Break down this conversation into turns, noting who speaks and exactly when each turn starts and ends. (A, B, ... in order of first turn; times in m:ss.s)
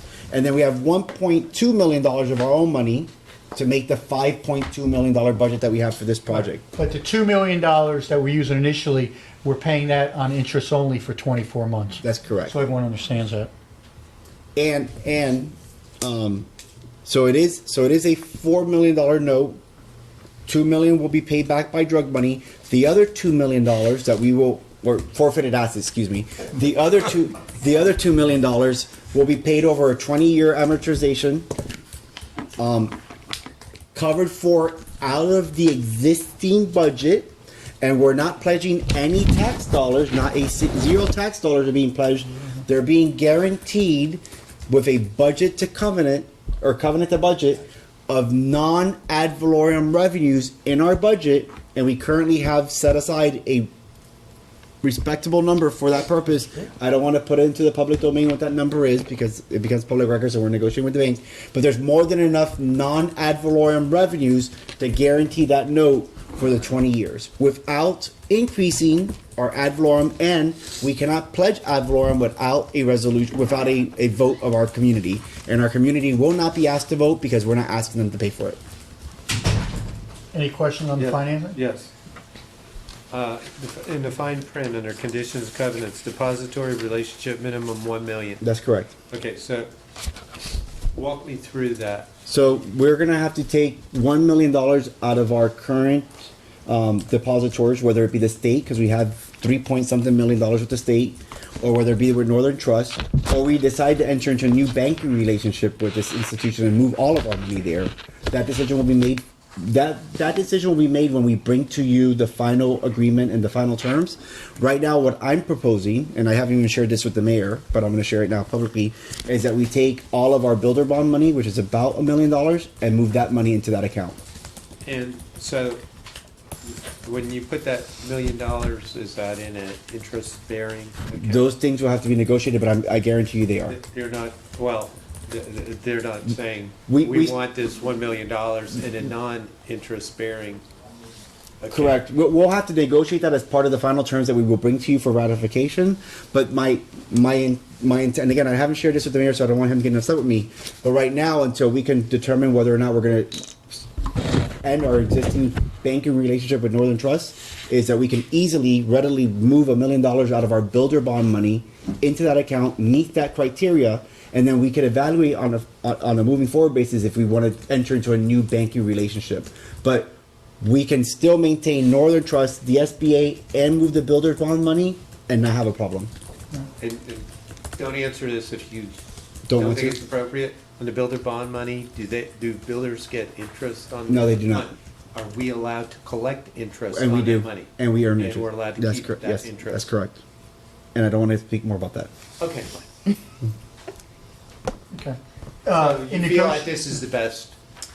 0:00.3-0:06.6 A
0:06.3-0:13.5 B
0:12.0-0:12.5 A
0:14.6-0:16.5 A
0:17.0-0:19.6 A
0:20.4-0:31.5 A
0:32.6-0:33.0 A
0:33.9-0:53.7 A
0:54.8-1:18.6 A
1:20.3-1:21.6 B
1:21.0-1:21.9 C
1:23.1-1:28.4 C
1:28.4-1:28.9 A
1:29.1-1:29.7 C
1:30.9-1:32.1 C
1:32.2-1:36.1 A
1:36.6-2:04.2 A
2:04.8-2:05.8 C
2:06.6-2:11.5 C
2:11.2-2:13.8 A
2:13.6-2:20.6 C
2:16.9-2:17.3 A
2:21.6-2:22.0 C
2:21.7-2:33.5 A
2:34.6-2:56.1 A
2:56.8-2:59.0 C
2:59.5-3:00.0 A
2:59.5-3:09.9 C
3:04.1-3:04.7 A
3:06.9-3:10.2 A
3:10.9-3:12.1 A
3:12.4-3:12.7 C
3:14.9-3:16.8 B
3:15.7-3:17.5 C